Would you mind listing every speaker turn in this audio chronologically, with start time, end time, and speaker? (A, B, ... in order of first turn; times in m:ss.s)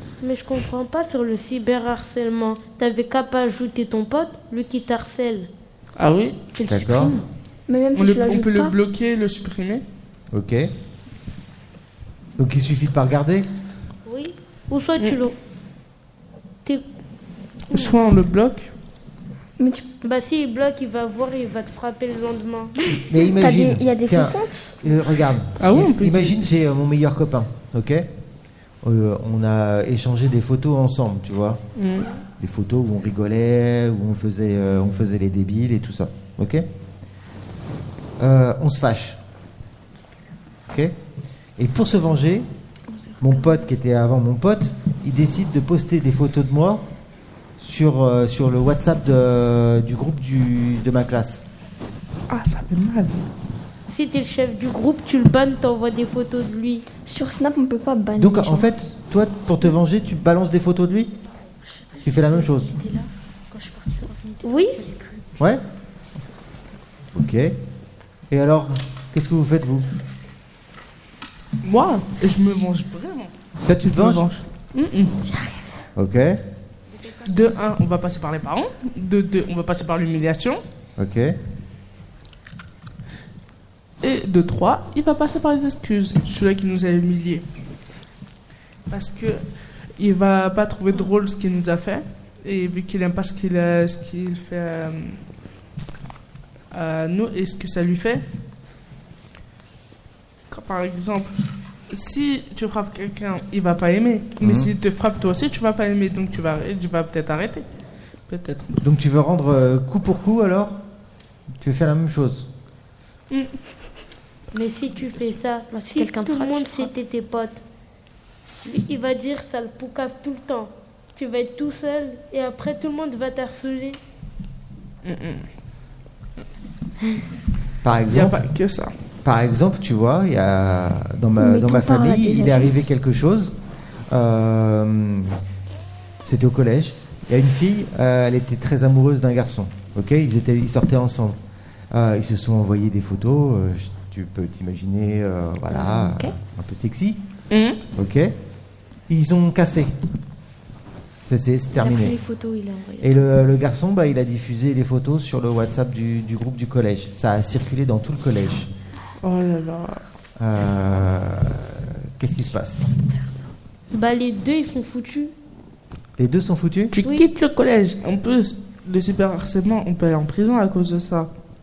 0:00.2-0:05.5 A
0:06.0-0:06.4 B
0:06.5-0:07.2 C
0:06.7-0:07.1 D
0:07.7-0:08.7 E
0:07.9-0:09.8 B
0:10.3-0:10.7 D
0:12.4-0:13.5 D
0:14.0-0:15.4 A
0:17.7-0:18.7 B
0:17.7-0:18.0 A
0:19.6-0:19.8 E
0:20.0-0:22.7 A
0:23.1-0:28.1 D
0:23.3-0:24.8 E
0:25.6-0:26.4 B
0:28.8-0:31.6 D
0:31.8-0:32.1 B
0:32.4-0:36.6 D
0:38.2-0:39.2 D
0:40.7-0:41.0 D
0:41.6-0:42.5 D
0:42.9-0:43.7 C
0:43.2-0:46.9 D
0:47.6-0:51.4 D
0:52.3-0:53.3 B
0:53.9-0:56.8 A
0:57.0-0:58.7 E
0:58.2-1:01.1 D
1:01.6-1:05.2 C
1:02.0-1:02.7 D
1:04.4-1:04.8 A
1:07.1-1:07.6 D
1:08.3-1:09.9 D
1:11.6-1:13.3 B
1:13.6-1:14.3 D
1:13.9-1:15.2 B
1:16.0-1:16.4 D
1:17.2-1:20.6 B
1:21.0-1:21.4 D
1:24.0-1:27.4 B
1:28.9-1:29.4 B
1:30.0-1:35.2 B
1:36.7-1:38.2 B
1:40.5-1:41.4 B
1:41.9-1:47.6 B
1:44.4-1:44.7 D
1:48.3-1:48.8 B
1:48.8-1:50.8 D
1:51.6-1:52.5 D
1:54.5-1:57.6 A
1:55.7-1:56.9 C
1:58.6-2:04.0 A
2:05.0-2:05.5 B
2:07.8-2:08.4 D
2:08.1-2:08.9 B
2:09.2-2:13.5 D
2:11.4-2:12.9 E
2:14.1-2:15.4 D
2:16.2-2:21.4 D
2:21.9-2:27.2 D
2:25.7-2:26.3 C
2:27.5-2:27.8 B
2:27.9-2:28.4 D
2:29.1-2:29.9 D
2:31.2-2:32.2 D
2:31.8-2:33.3 C
2:33.0-2:38.7 D
2:39.2-2:40.0 B
2:40.4-2:42.9 D
2:43.0-2:43.5 C
2:43.9-2:45.3 A
2:46.2-2:46.9 D
2:46.9-2:51.3 B
2:47.0-2:47.3 A